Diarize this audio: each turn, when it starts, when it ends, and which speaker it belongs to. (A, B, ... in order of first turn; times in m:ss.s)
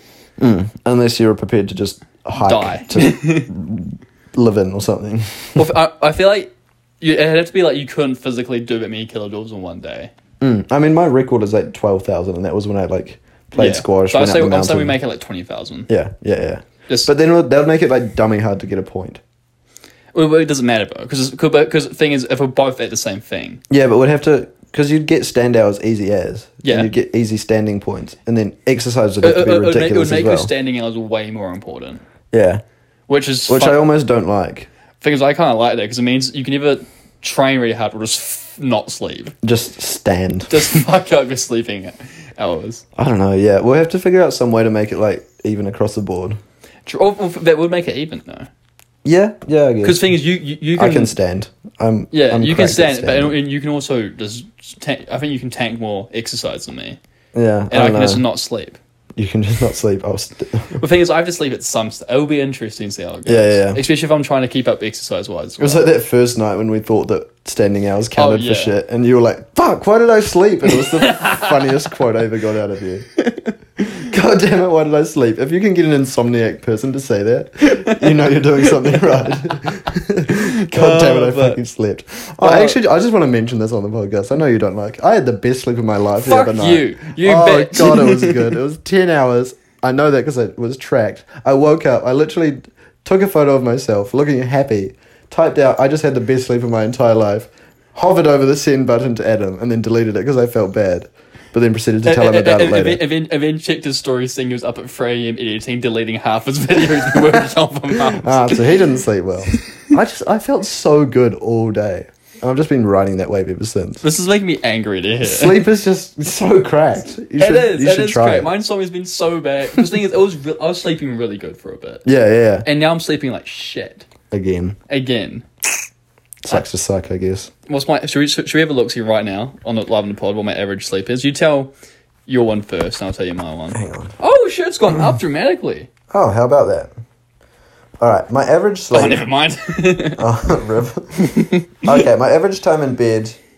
0:00.4-0:05.7 A
0:02.4-0:03.5 B
0:05.6-0:10.1 B
0:10.4-0:15.0 A
0:13.6-0:15.9 B
0:15.9-0:19.2 A
0:20.1-0:23.6 B
0:23.7-0:30.5 A
0:26.6-0:26.9 B
0:29.2-0:32.0 B
0:32.3-0:32.6 A
0:33.1-0:33.8 B
0:33.5-0:34.7 A
0:35.0-0:39.4 B
0:39.4-0:40.6 A
0:40.5-0:42.8 B
0:43.0-0:46.4 A
0:46.9-0:48.5 B
0:49.0-0:50.1 A
0:49.8-0:51.1 B
0:50.8-0:53.4 A
0:52.1-0:57.0 B
0:57.3-0:58.2 A
0:57.7-0:58.8 B
0:59.2-1:00.8 A
1:00.8-1:05.9 B
1:03.3-1:03.8 A
1:05.6-1:13.1 A
1:08.2-1:08.7 B
1:11.0-1:11.5 B
1:13.2-1:14.0 B
1:14.0-1:43.0 A
1:17.6-1:18.0 B
1:20.3-1:21.6 B
1:22.4-1:22.8 B
1:26.2-1:28.5 B
1:42.0-1:48.8 B
1:48.2-1:54.0 A
1:54.0-1:55.6 B
1:55.2-1:58.5 A
1:57.4-2:02.0 B
2:02.0-2:02.7 A
2:02.6-2:04.1 B
2:04.3-2:04.8 A
2:04.9-2:05.5 B
2:06.4-2:07.5 A
2:07.7-2:11.7 B
2:12.3-2:15.9 B
2:13.7-2:14.1 A
2:16.1-2:16.9 A
2:18.0-2:19.2 A
2:18.9-2:20.2 B
2:20.2-2:23.4 A
2:21.2-2:21.7 B